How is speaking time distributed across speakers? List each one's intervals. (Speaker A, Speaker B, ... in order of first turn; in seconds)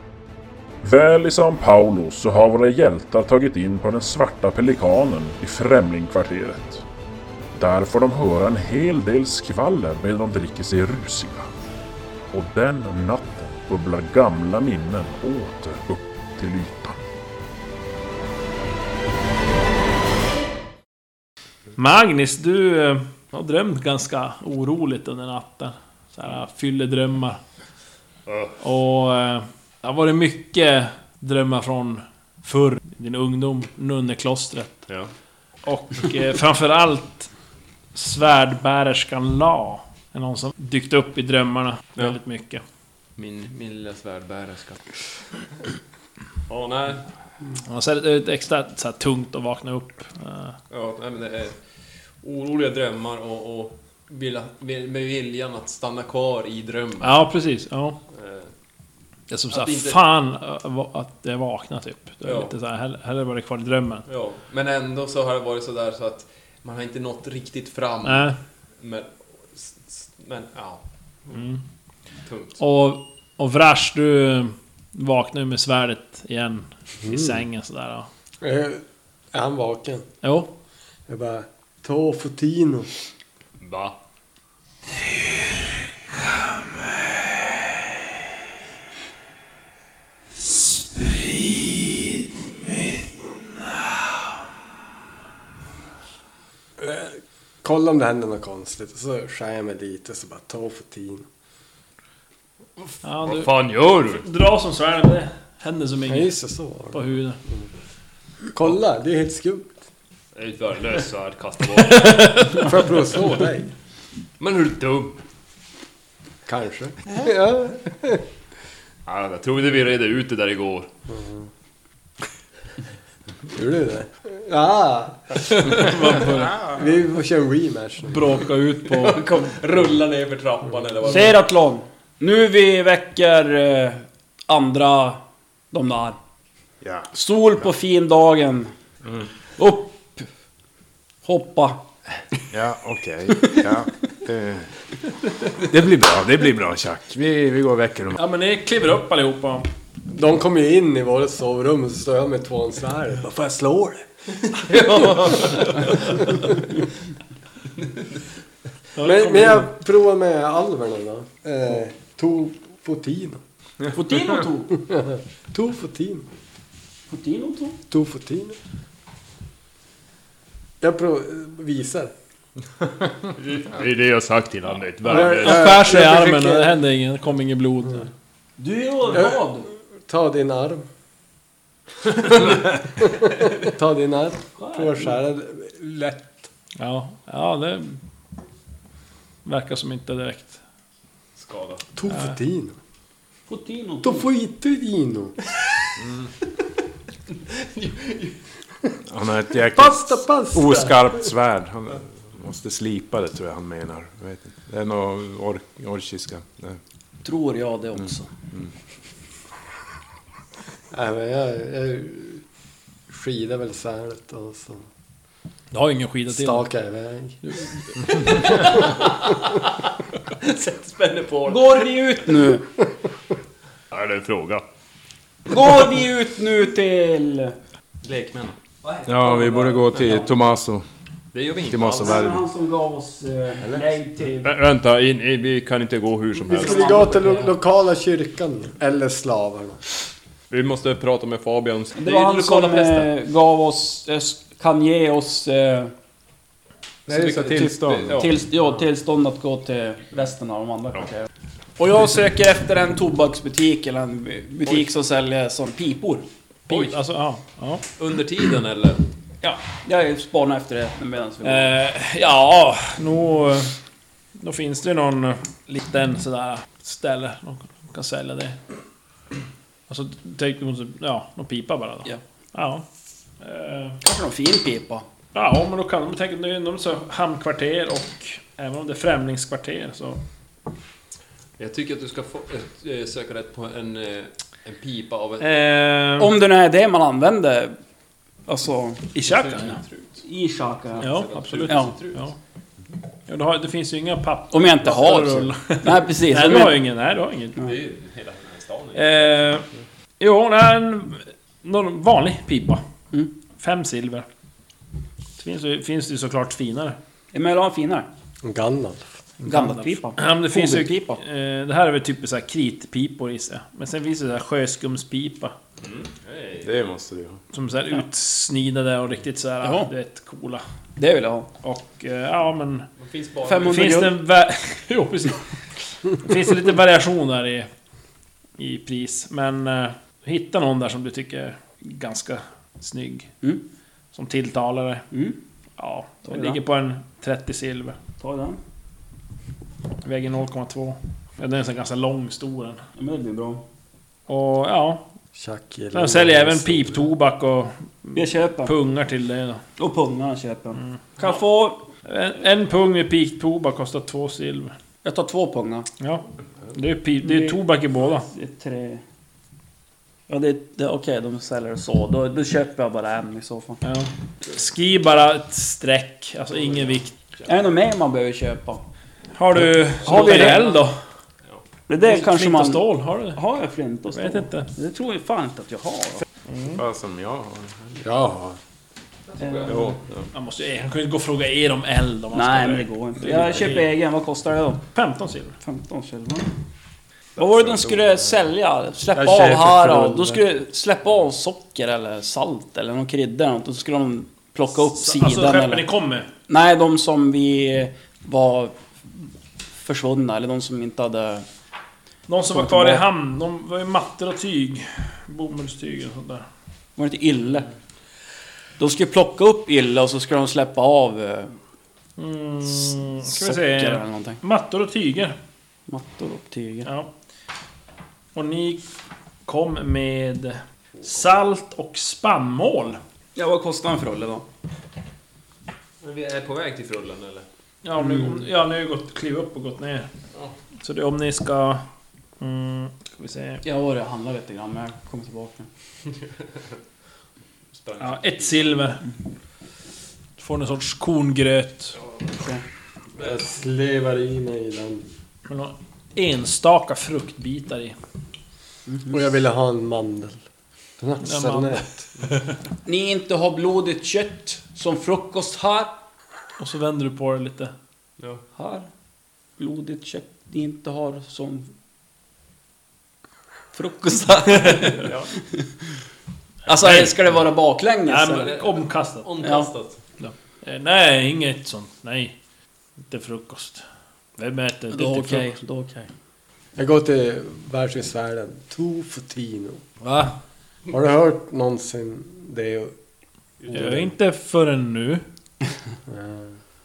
Speaker A: 0.8-6.8, 7.5-11.5, 12.3-17.0
Speaker B: 21.8-27.4, 28.6-34.8, 35.6-37.3, 37.9-42.6, 47.6-50.6, 57.0-58.0, 59.3-64.0, 68.0-68.3, 71.3-71.6, 72.6-78.1, 80.2-80.5, 90.9-91.6, 103.0-103.5, 104.1-106.3, 106.9-107.4, 112.0-112.7, 125.6-126.6, 128.1-129.2, 148.2-149.7, 158.9-159.7, 175.0-178.1, 186.8-188.0, 189.4-190.6, 192.1-192.3, 215.7-216.6, 217.4-217.7, 256.7-257.8, 261.4-263.8, 264.4-268.6, 269.9-272.8, 273.4-274.0, 275.3-280.2, 285.4-286.3, 289.1-289.8, 291.0-292.3, 293.3-297.6, 298.9-299.6, 300.2-302.8, 303.6-304.2, 305.4-307.0, 309.4-315.5, 317.5-320.6, 321.6-322.9, 323.6-325.4, 326.1-327.7, 328.6-333.3, 334.1-335.0, 335.8-338.0, 340.0-342.8, 344.3-345.0, 345.9-349.6, 350.8-351.4, 352.0-354.7, 356.0-358.3, 363.8-367.1, 369.3-370.9, 372.0-373.4, 374.1-374.7, 376.5-376.8, 380.3-383.7, 384.9-385.6, 394.9-396.3, 402.3-406.4, 412.2-415.4, 416.8-417.1, 418.3-418.9, 419.4-423.0, 427.8-430.1, 430.8-431.8, 432.4-433.6, 438.0-439.1, 440.4-441.9, 445.5-447.9, 451.2-451.8, 456.6-457.7, 466.7-467.1, 468.0-469.3, 470.2-472.4, 473.1-473.8, 474.4-475.5, 480.0-480.3, 483.7-485.2
Speaker C: 28.3-28.6, 43.2-44.9, 46.5-47.0, 50.7-51.6, 52.2-57.2, 58.1-58.5, 59.5-60.0, 62.2-62.5, 64.1-71.4, 72.2-72.6, 83.6-84.0, 103.2-104.2, 110.3-112.8, 114.4-115.2, 119.0-120.9, 128.8-131.4, 154.5-156.3, 173.3-175.7, 191.4-191.8, 197.3-198.4, 218.3-219.6, 220.4-221.9, 223.9-224.6, 228.0-228.5, 231.3-232.3, 234.4-237.0, 240.5-243.1, 247.1-248.4, 256.7-256.9, 258.0-259.0, 281.6-285.6, 289.2-290.2, 290.9-292.3, 297.6-299.1, 315.8-316.8, 323.0-323.9, 370.1-370.6, 379.4-380.0, 426.0-427.4, 437.7-438.9, 465.0-465.3, 469.2-470.0
Speaker D: 77.0-77.4, 78.4-80.0, 81.1-82.9, 96.8-101.2, 106.1-107.6, 108.5-109.8, 112.5-113.7, 116.5-118.2, 121.1-121.5, 123.5-125.5, 126.7-128.3, 150.1-154.1, 156.2-156.4, 159.0-163.4, 164.7-166.3, 167.9-168.6, 170.8-172.1, 175.0-176.8, 179.1-180.9, 183.0-186.5, 191.9-192.8, 194.0-195.3, 199.7-201.1, 210.9-212.4, 213.1-214.9, 216.3-217.4, 236.5-239.8, 308.4-309.0, 345.3-347.1, 389.1-390.4, 443.2-445.0, 449.1-450.4, 451.0-452.1, 476.8-479.8, 480.9-482.9, 483.7-484.1, 486.1-486.5
Speaker E: 129.1-129.5, 131.0-136.2, 137.1-138.7, 139.6-140.3, 141.2-141.8, 163.9-164.8, 167.1-167.8, 178.6-179.7, 184.6-185.1, 193.5-194.2, 207.2-208.3, 221.4-222.6, 225.5-227.6, 228.8-230.3, 232.0-234.5, 236.4-237.5, 242.0-245.9, 248.2-251.3, 251.8-256.2, 259.4-261.7, 274.0-275.1, 286.2-287.8, 288.5-289.1, 290.2-291.1, 291.7-291.9, 294.5-296.8, 307.3-308.1, 309.4-311.2, 319.6-319.9, 321.0-321.5, 323.4-324.1, 335.1-335.4, 336.3-336.6, 338.2-338.6, 343.0-343.6, 348.1-348.7, 349.8-351.8, 355.0-355.9, 357.2-357.6, 358.3-359.0, 360.3-363.8, 367.4-368.8, 370.0-370.7, 371.9-376.2, 379.4-380.0, 382.3-384.8, 385.6-386.5, 387.4-395.8, 396.5-399.3, 399.8-401.4, 402.5-403.0, 407.0-407.7, 408.8-411.5, 413.3-414.4, 415.9-416.9, 423.3-424.4, 433.6-435.7, 442.4-442.6, 452.8-455.9, 458.5-458.9, 459.6-461.7, 463.7-465.1, 466.7-468.6, 469.4-469.7, 474.9-476.1
Speaker F: 136.8-137.1, 139.0-139.3, 142.5-144.7, 145.6-148.2, 199.1-206.8, 229.1-230.8, 231.6-232.4, 247.1-248.3, 316.6-317.4, 376.6-378.6, 379.7-380.3, 387.4-388.4